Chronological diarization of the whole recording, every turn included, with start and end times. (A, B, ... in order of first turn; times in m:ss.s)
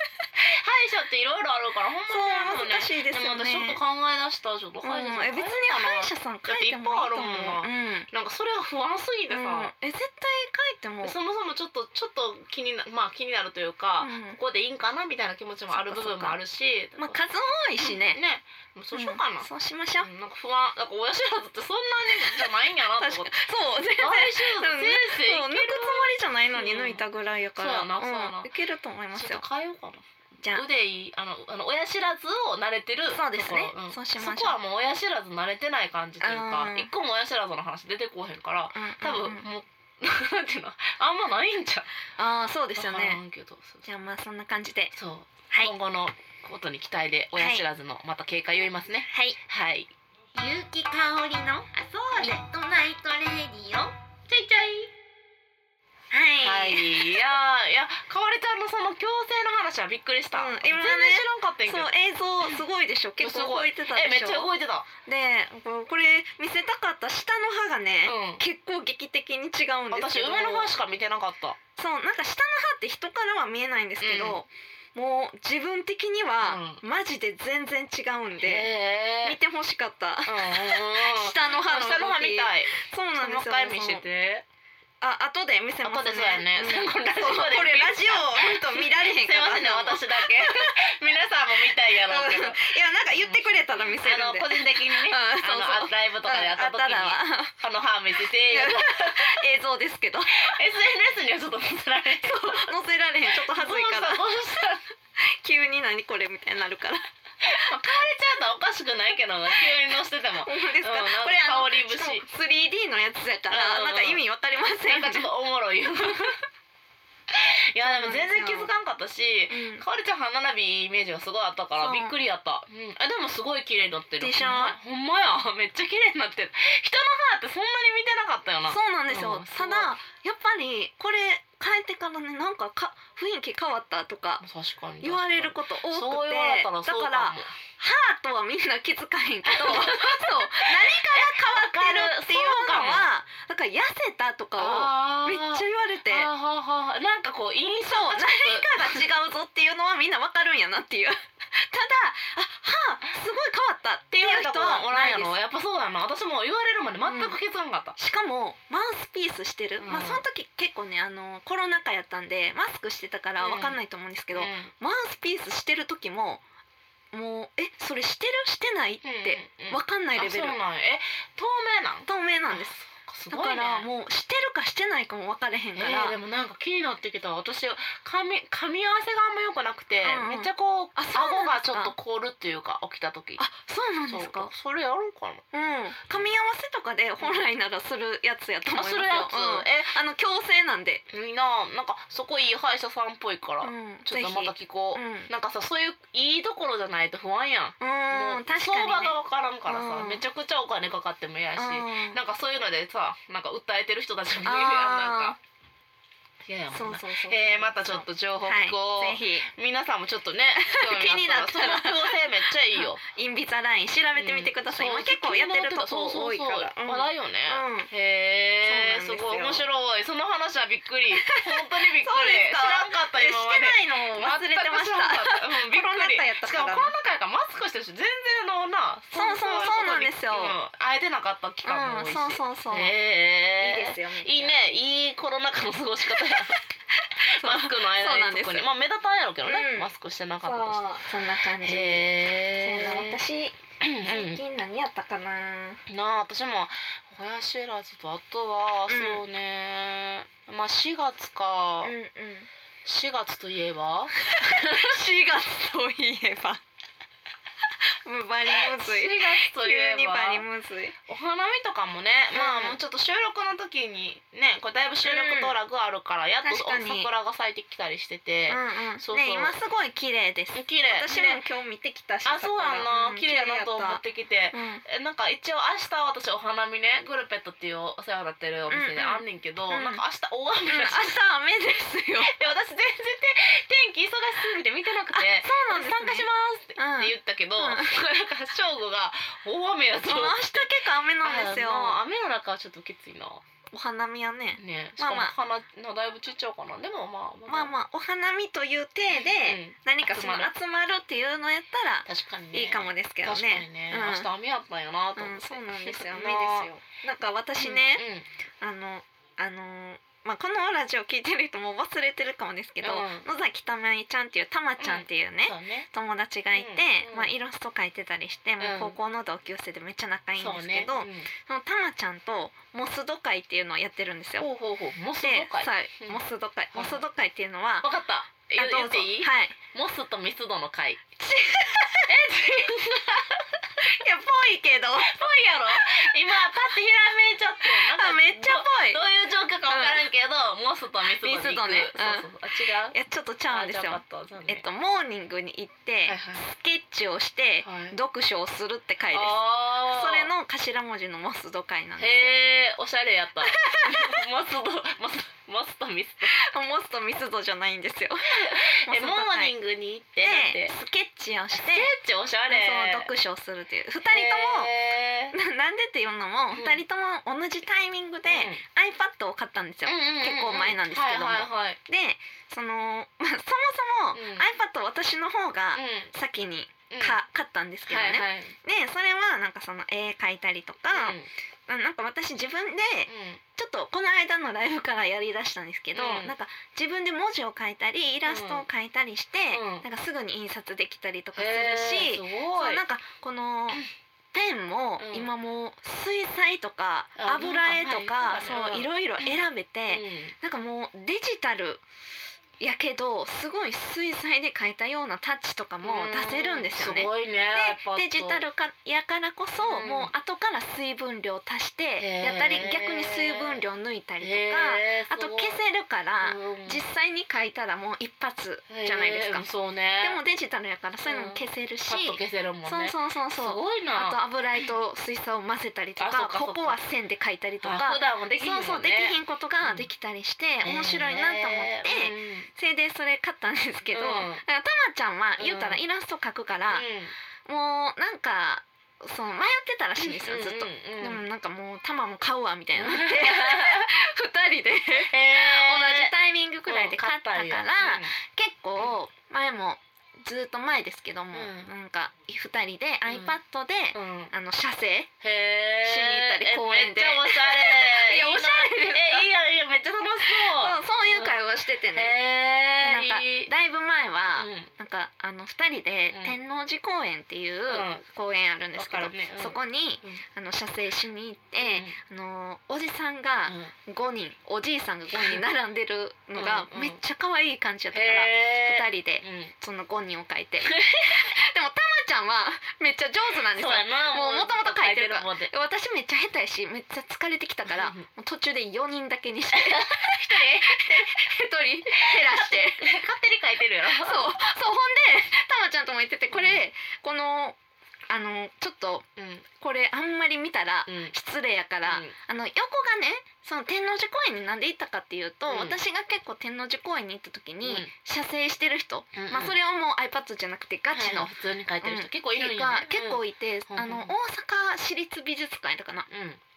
0:00.4-0:09.7 A
0:02.1-0:03.8 B
0:04.8-0:08.1 B
0:09.3-0:11.2 B
0:11.0-0:17.2 A
0:14.0-0:14.4 B
0:15.7-0:16.4 B
0:17.0-0:18.2 B
0:17.8-0:23.3 A
0:18.9-0:20.1 B
0:22.1-0:29.4 B
0:24.0-0:27.0 A
0:27.6-0:28.5 A
0:29.1-0:41.9 A
0:33.1-0:34.6 B
0:36.2-0:36.9 B
0:38.7-0:39.4 B
0:42.2-0:43.2 B
0:42.8-0:43.9 A
0:43.8-0:44.9 B
0:44.9-0:49.9 A
0:47.4-0:47.6 B
0:49.1-0:49.4 B
0:50.3-0:53.9 B
0:54.3-0:54.9 A
0:56.1-0:57.3 B
0:56.4-1:01.9 A
1:00.3-1:04.5 B
1:03.2-1:04.9 A
1:05.0-1:10.7 B
1:08.0-1:08.4 A
1:09.9-1:11.6 A
1:11.8-1:18.7 B
1:14.0-1:14.4 A
1:16.4-1:16.8 A
1:18.4-1:19.4 A
1:19.2-1:24.0 B
1:20.3-1:24.4 A
1:25.0-1:30.8 B
1:25.8-1:39.4 A
1:31.8-1:37.5 B
1:38.5-1:40.6 B
1:40.4-1:42.7 A
1:42.2-1:47.0 B
1:43.3-1:44.8 A
1:47.4-1:52.2 A
1:50.4-1:55.3 B
1:53.5-1:54.2 A
1:54.8-1:56.4 A
1:56.0-1:56.3 B
1:57.3-2:09.9 A
1:57.8-1:58.7 B
1:59.5-1:59.8 B
2:01.8-2:02.2 B
2:04.2-2:04.8 B
2:08.7-2:14.4 B
2:14.4-2:17.5 A
2:15.0-2:26.3 B
2:19.5-2:23.1 A
2:24.6-2:29.0 A
2:27.9-2:35.3 B
2:34.1-2:38.0 A
2:37.0-2:37.4 B
2:38.0-2:46.4 B
2:39.8-2:40.2 A
2:43.4-2:43.8 A
2:44.3-2:44.7 A
2:47.1-2:50.6 B
2:49.0-2:53.9 A
2:52.0-2:56.2 B
2:55.7-3:03.4 A
3:00.0-3:01.9 B
3:03.4-3:04.5 B
3:04.1-3:05.4 A
3:05.5-3:11.0 B
3:07.2-3:07.4 A
3:08.7-3:09.9 A
3:11.1-3:25.4 A
3:13.6-3:15.3 B
3:17.8-3:20.2 B
3:21.6-3:22.2 B
3:24.4-3:25.4 B
3:26.4-3:33.0 A
3:26.7-3:29.5 B
3:30.6-3:32.2 B
3:32.7-3:37.9 B
3:34.1-3:56.6 A
3:38.6-3:39.6 B
3:41.2-3:46.9 B
3:49.1-3:50.6 B
3:51.6-3:52.9 B
3:53.6-3:54.6 B
3:56.0-3:56.5 B
3:57.0-3:58.7 B
3:57.2-4:03.2 A
3:59.4-3:59.9 B
4:00.4-4:05.8 B
4:03.8-4:04.4 A
4:05.9-4:11.9 A
4:08.9-4:09.2 B
4:11.8-4:12.5 B
4:12.8-4:15.0 A
4:14.3-4:16.6 B
4:18.0-4:20.9 B
4:18.5-4:20.4 A
4:21.1-4:29.6 A
4:22.3-4:22.8 B
4:25.0-4:25.6 B
4:26.4-4:27.1 B
4:28.5-4:34.0 B
4:30.5-4:31.4 A
4:32.2-4:41.1 A
4:34.5-4:34.8 B
4:38.7-4:40.0 B
4:40.7-4:42.3 B
4:42.2-4:50.7 A
4:45.1-4:47.9 B
4:50.0-4:52.0 B
4:51.2-4:53.4 A
4:53.7-4:55.3 B
4:54.6-4:57.7 A
4:57.5-5:04.3 B
4:59.2-5:00.5 A
5:02.0-5:06.7 A
5:05.2-5:08.0 B
5:07.6-5:08.2 A
5:08.6-5:24.5 B
5:12.8-5:13.3 A
5:14.8-5:15.9 A
5:16.5-5:17.3 A
5:18.6-5:19.0 A
5:20.4-5:21.3 A
5:24.4-5:26.2 A
5:25.2-5:27.9 B
5:26.7-5:27.0 A
5:27.8-5:31.0 A
5:28.6-5:29.6 B
5:31.2-5:32.5 B
5:32.1-5:33.5 A
5:33.8-5:36.6 B
5:35.0-5:43.0 A
5:37.6-5:39.0 B
5:39.7-5:40.0 B
5:41.2-5:42.3 B
5:42.9-5:52.3 B
5:43.5-5:44.6 A
5:46.0-5:46.4 A
5:47.6-5:48.0 A
5:49.1-5:50.3 A
5:52.0-5:56.4 A
5:53.4-5:54.2 B
5:56.2-5:59.5 B
5:58.3-6:00.8 A
6:00.2-6:01.9 B
6:01.5-6:03.1 A
6:02.5-6:04.7 B
6:04.0-6:05.4 A
6:05.3-6:33.8 B
6:06.5-6:06.8 A
6:08.2-6:08.6 A
6:09.8-6:11.8 A
6:14.1-6:14.5 A
6:15.7-6:16.1 A
6:16.9-6:17.2 A
6:17.8-6:18.6 A
6:20.9-6:21.3 A
6:23.1-6:23.4 A
6:25.9-6:26.3 A
6:28.2-6:28.6 A
6:29.5-6:29.8 A
6:31.3-6:32.8 A
6:34.3-6:41.8 B
6:35.0-6:35.3 A
6:37.2-6:39.4 A
6:39.9-6:40.3 A
6:42.6-7:16.8 B
6:45.8-6:48.4 A
6:49.6-6:50.1 A
6:52.0-6:53.6 A
6:54.2-6:55.6 A
6:56.2-6:56.8 A
6:58.7-7:00.2 A
7:01.0-7:04.2 A
7:06.0-7:06.8 A
7:07.6-7:09.9 A
7:10.6-7:12.5 A
7:13.9-7:14.4 A
7:15.4-7:15.8 A
7:16.7-7:17.1 A
7:17.4-7:35.1 B
7:20.0-7:21.2 A
7:22.8-7:23.9 A
7:25.0-7:26.1 A
7:26.6-7:28.1 A
7:31.3-7:31.7 A
7:33.0-7:33.3 A
7:33.9-7:34.3 A
7:35.2-7:41.4 A
7:35.8-7:39.3 B
7:40.2-7:42.1 B
7:41.9-7:43.5 A
7:42.8-8:12.9 B
7:44.3-7:44.7 A
7:47.7-7:48.0 A
7:48.7-7:50.2 A
7:51.6-7:52.0 A
7:53.4-7:53.7 A
7:56.3-7:57.0 A
7:57.9-7:59.5 A
8:00.6-8:01.3 A
8:03.5-8:05.5 A
8:07.6-8:08.0 A
8:09.5-8:11.3 A
8:11.9-8:14.3 A
8:13.9-8:17.6 B
8:16.3-8:16.6 A
8:18.1-8:19.0 B
8:19.2-8:19.4 A
8:19.6-8:31.3 B
8:20.9-8:21.1 A
8:21.8-8:22.1 A
8:25.5-8:25.8 A
8:27.6-8:27.9 A
8:29.1-8:29.6 A
8:30.9-8:34.1 A
8:31.8-8:36.1 B
8:36.1-8:36.4 A